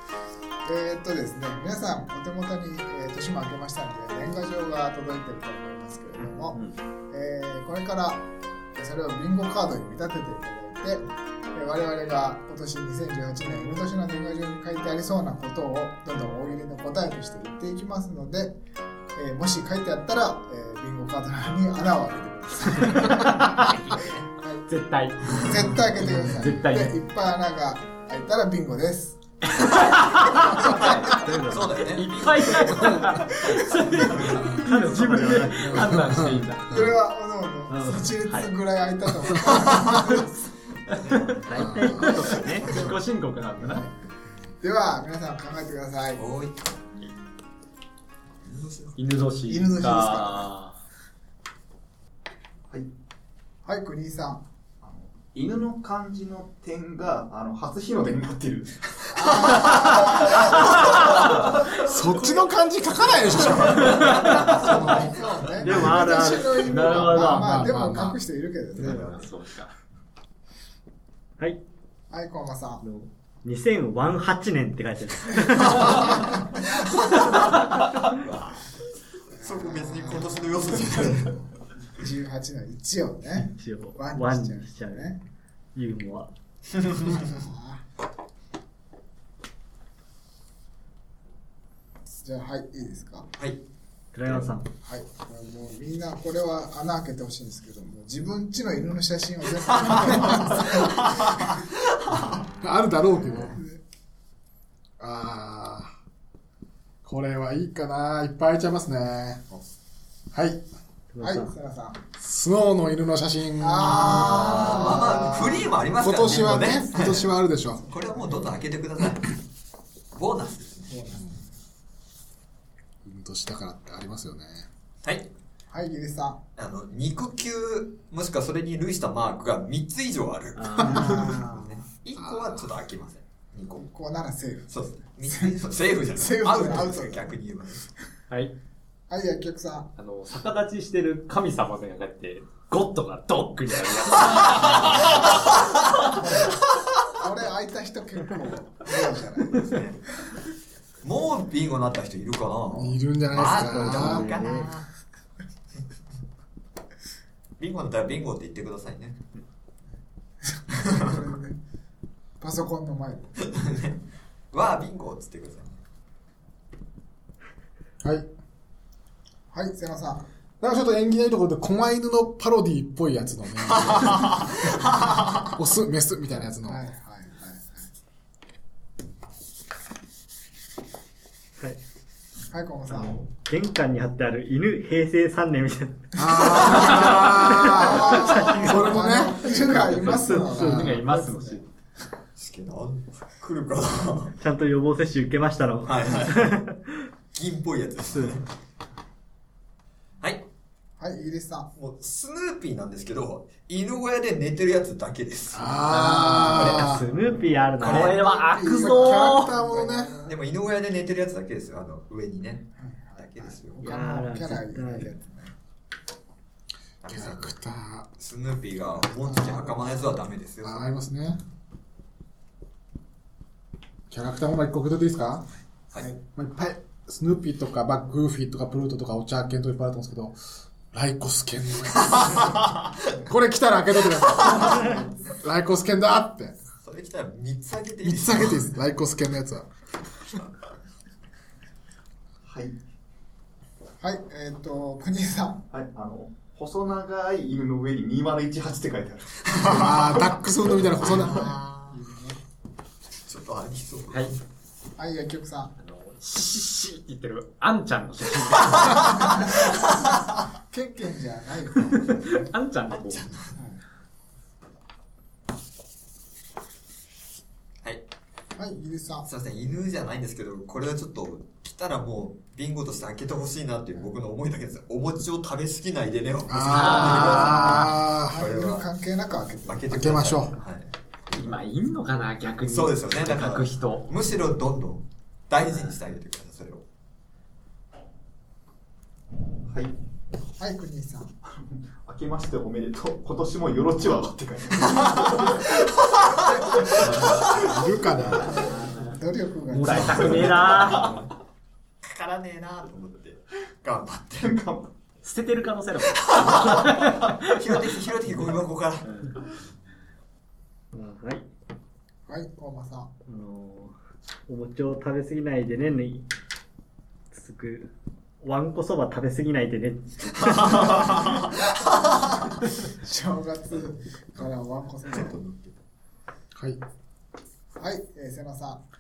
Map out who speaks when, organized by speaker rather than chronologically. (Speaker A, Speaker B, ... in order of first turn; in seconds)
Speaker A: 0.7-8.2, 8.8-18.6, 19.2-23.7, 24.3-24.7, 25.2-30.9, 36.7-40.4, 43.6-43.9, 44.6-46.2, 49.5-50.5, 53.6-54.5, 59.1-61.3, 63.5-69.3, 72.1-72.8, 79.3-85.2, 87.1-87.8, 92.2-93.3, 94.8-101.5, 103.6-103.8, 111.2-112.0, 113.6-118.5, 120.9-121.5, 125.7-126.4, 130.8-131.8, 133.8-135.6, 136.2-137.4, 139.1-139.9, 146.1-149.8, 160.4-161.6, 162.4-163.4, 169.5-170.3, 176.7-177.9, 182.5-183.3, 187.6-191.6, 201.0-201.7, 208.0-210.4, 212.8-215.6, 219.2-220.0, 234.4-235.4, 244.0-245.6, 251.9-252.4, 255.0-255.7, 259.2-259.9, 260.7-262.6, 263.6-263.8, 268.6-269.3, 276.7-280.3, 290.6-291.3, 296.8-297.1, 298.2-300.7, 312.3-313.1, 322.9-325.4, 327.8-328.8
Speaker B: 6.2-6.8, 23.4-26.9, 29.6-30.7, 31.9-36.7, 40.9-43.8, 49.0-50.8, 63.9-64.3, 65.7-66.0, 66.5-67.5, 68.8-69.7, 130.6-131.3, 140.0-145.4, 189.8-191.6, 207.8-209.5, 255.8-259.4, 262.1-263.4, 276.6-277.8, 281.3-284.1, 285.6-285.9, 296.9-297.6, 298.3-299.1, 299.7-301.2, 305.2-307.4, 309.0-309.4
Speaker C: 30.5-32.0, 34.2-35.9, 37.7-38.1, 41.5-42.7, 65.6-67.4, 72.8-76.3, 83.5-85.1, 85.8-86.3, 94.1-94.7, 103.2-103.6, 111.1-111.5, 153.5-154.7, 182.9-189.0, 190.4-190.8, 194.4-197.1, 206.2-208.2, 213.8-215.1, 310.9-311.5, 313.3-313.9, 314.5-316.3, 317.3-321.0
Speaker D: 30.6-33.2, 33.7-34.5, 40.9-43.0, 46.2-46.8, 48.4-49.0, 63.6-65.8, 68.8-69.3, 77.1-78.8, 79.4-81.4, 86.8-87.2, 94.3-94.5, 100.1-102.3, 114.0-117.3, 117.9-119.4, 120.2-120.9, 125.0-125.3, 126.6-133.9, 134.7-137.8, 149.5-154.9, 157.6-159.2, 163.4-164.0, 164.5-165.8, 173.8-175.4, 192.4-194.3, 195.8-196.6, 197.3-198.5, 201.8-208.2, 210.3-213.8, 217.0-217.6, 218.2-220.8, 236.8-238.7, 249.5-250.3, 250.9-252.0, 253.2-254.4, 262.9-263.6, 269.2-278.9, 279.7-281.5, 282.6-286.8, 295.2-297.4, 300.0-301.2, 302.0-304.5, 306.4-309.1, 320.5-322.6, 325.1-325.8
Speaker E: 35.8-37.0, 41.5-42.2, 61.8-64.1, 66.7-68.2, 102.6-103.6, 105.0-105.9, 107.0-109.4, 110.3-110.6, 112.2-114.9, 116.0-117.8, 123.0-124.7, 132.2-132.6, 152.7-154.3, 170.6-174.8, 175.4-176.8, 186.2-189.5, 190.5-191.0, 205.5-207.0, 208.7-210.1, 217.1-218.1, 220.6-221.4, 224.1-225.5, 226.3-230.4, 230.9-236.6, 238.0-239.7, 249.6-251.5, 276.5-278.4, 279.9-280.6, 297.4-298.6, 326.6-326.8
Speaker F: 55.3-60.5, 242.4-242.8, 245.7-249.6, 289.7-290.0, 291.5-295.7, 304.4-304.9